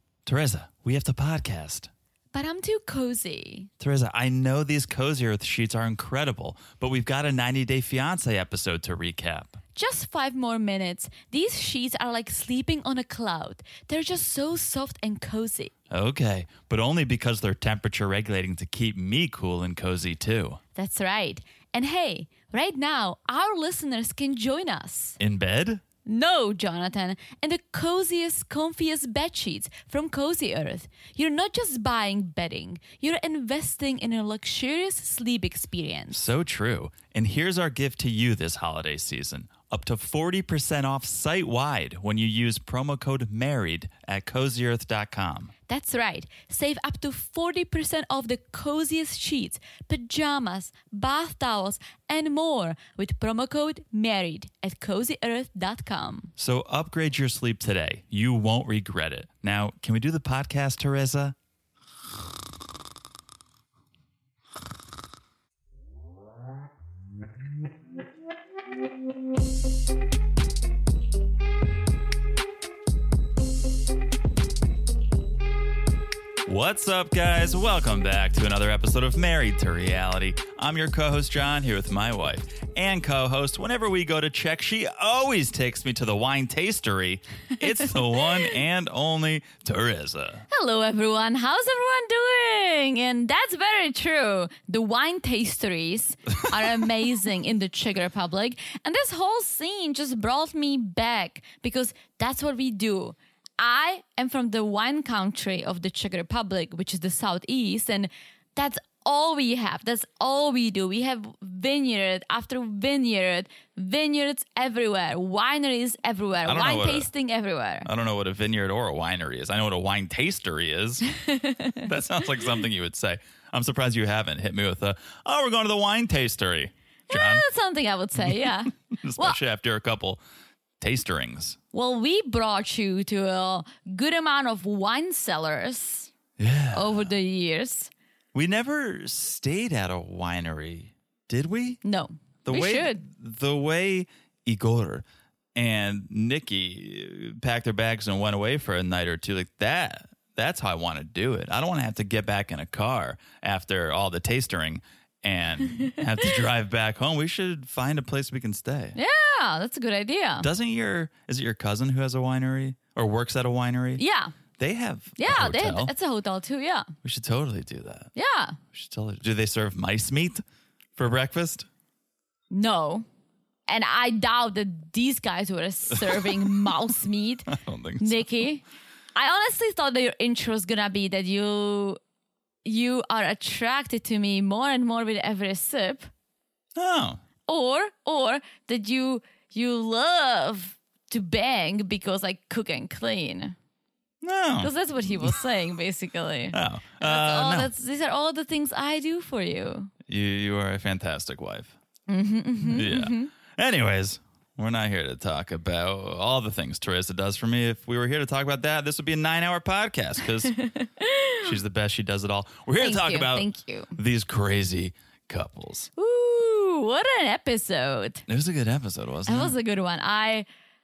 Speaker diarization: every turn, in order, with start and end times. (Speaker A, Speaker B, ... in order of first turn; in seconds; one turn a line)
Speaker A: 0.2-1.9
Speaker B: 2.3-3.7
Speaker A: 3.8-9.6
Speaker B: 9.7-15.7
Speaker A: 15.9-20.6
Speaker B: 20.8-25.2
Speaker A: 25.2-25.8
Speaker B: 26.1-36.2
Speaker A: 36.1-45.5
Speaker B: 45.7-56.3
Speaker A: 56.4-61.3
Speaker A: 76.5-90.4
Speaker B: 90.5-117.9
Speaker A: 116.4-117.1
Speaker A: 117.8-121.1
Speaker B: 121.1-121.9
Speaker A: 121.8-127.4
Speaker B: 127.1-129.4
Speaker A: 128.9-130.2
Speaker A: 130.8-131.6
Speaker B: 131.7-136.1
Speaker A: 136.4-137.1
Speaker B: 136.7-137.9
Speaker A: 138.3-141.8
Speaker B: 141.8-143.0
Speaker A: 142.4-145.0
Speaker A: 145.5-159.0
Speaker B: 158.9-160.5
Speaker A: 160.4-164.0
Speaker B: 164.0-164.3
Speaker A: 164.6-165.9
Speaker B: 165.2-166.9
Speaker A: 167.0-168.1
Speaker B: 168.1-168.6
Speaker A: 168.7-170.4
Speaker A: 170.9-171.7
Speaker B: 172.5-173.1
Speaker B: 173.7-178.6
Speaker A: 177.5-178.2
Speaker B: 179.1-182.0
Speaker B: 182.6-186.1
Speaker A: 186.8-187.2
Speaker B: 187.5-193.5
Speaker A: 194.2-195.3
Speaker B: 194.6-199.9
Speaker A: 196.5-197.7
Speaker A: 200.1-201.7
Speaker B: 202.1-203.3
Speaker A: 202.6-210.5
Speaker B: 210.5-211.6
Speaker A: 211.4-215.9
Speaker B: 212.8-213.9
Speaker B: 215.9-218.2
Speaker A: 218.3-219.5
Speaker B: 219.2-220.4